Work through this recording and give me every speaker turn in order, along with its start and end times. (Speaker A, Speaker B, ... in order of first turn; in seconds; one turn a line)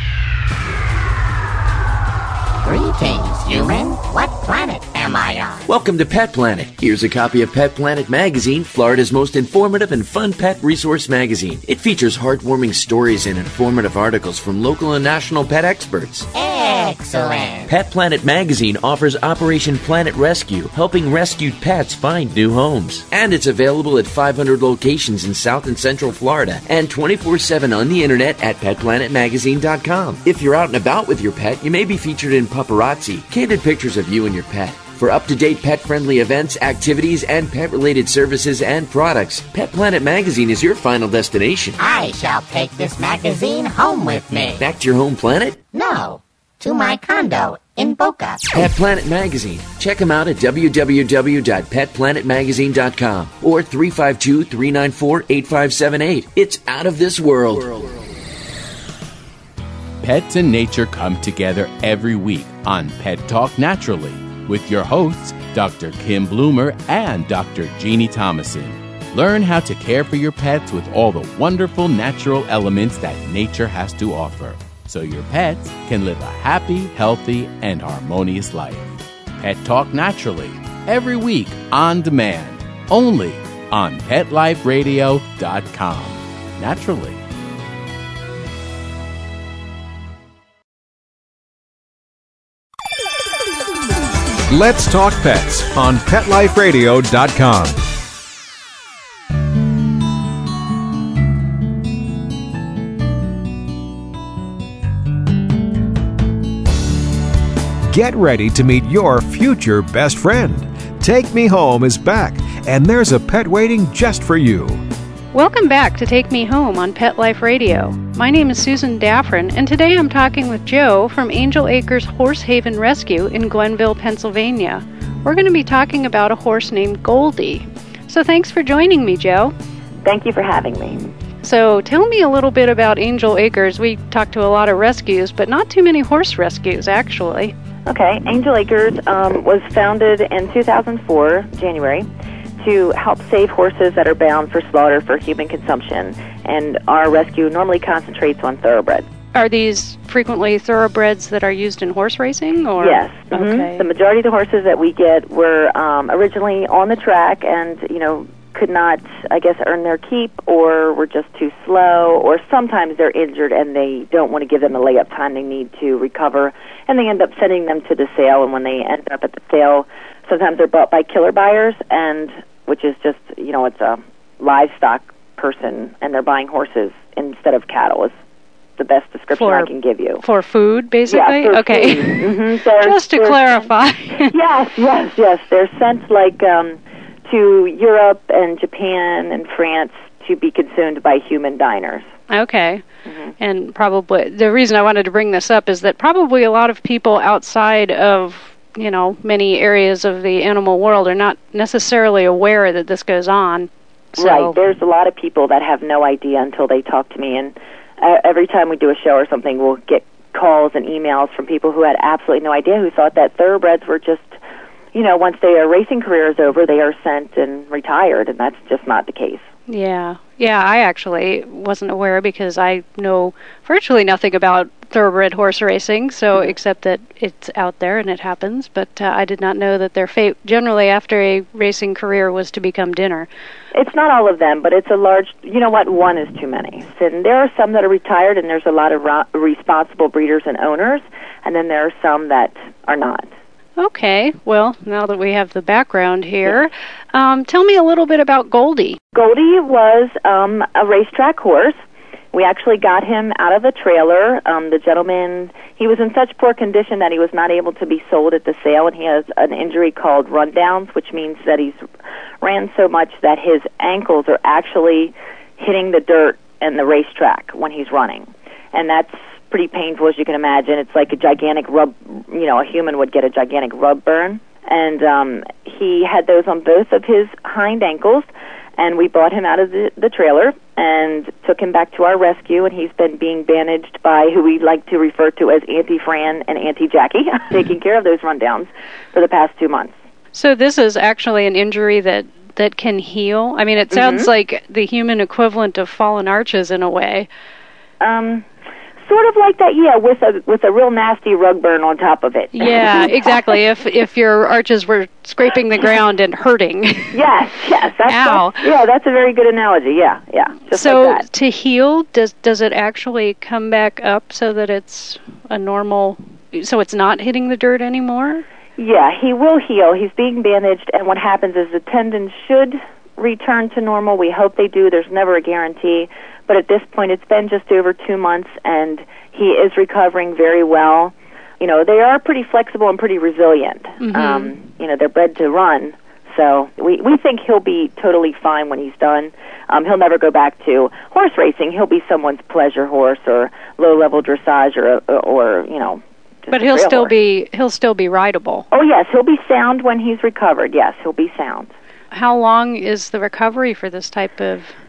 Speaker A: 2.6-5.6
Speaker B: 5.7-16.3
Speaker A: 16.3-17.7
Speaker B: 17.6-41.9
Speaker A: 41.8-44.6
Speaker B: 44.5-45.6
Speaker A: 45.7-48.6
Speaker B: 48.5-57.9
Speaker C: 60.0-87.2
Speaker D: 94.5-97.8
Speaker D: 107.9-114.8
Speaker E: 115.3-129.5
Speaker F: 130.0-131.1
Speaker E: 131.4-137.5
Speaker F: 137.8-142.1
Speaker F: 142.6-149.1
Speaker E: 149.3-153.8
Speaker F: 152.8-178.1
Speaker F: 178.8-180.2
Speaker E: 179.3-184.3
Speaker F: 181.1-183.7
Speaker F: 184.2-192.1
Speaker E: 192.3-192.8
Speaker F: 193.0-193.3
Speaker E: 193.4-204.6
Speaker F: 204.2-214.4
Speaker F: 214.9-219.5
Speaker E: 219.7-233.3
Speaker F: 233.7-243.3
Speaker E: 243.8-249.0
Speaker F: 249.1-251.7
Speaker F: 252.3-261.8
Speaker F: 262.4-289.9
Speaker E: 290.3-297.3
Speaker F: 293.9-294.3
Speaker F: 298.0-298.4
Speaker F: 299.1-303.5
Speaker E: 302.5-307.2
Speaker F: 307.1-311.2
Speaker E: 308.1-308.6
Speaker E: 310.7-318.4
Speaker F: 318.8-347.1
Speaker E: 334.0-334.5
Speaker E: 346.5-348.7
Speaker F: 348.7-351.7
Speaker E: 352.1-354.8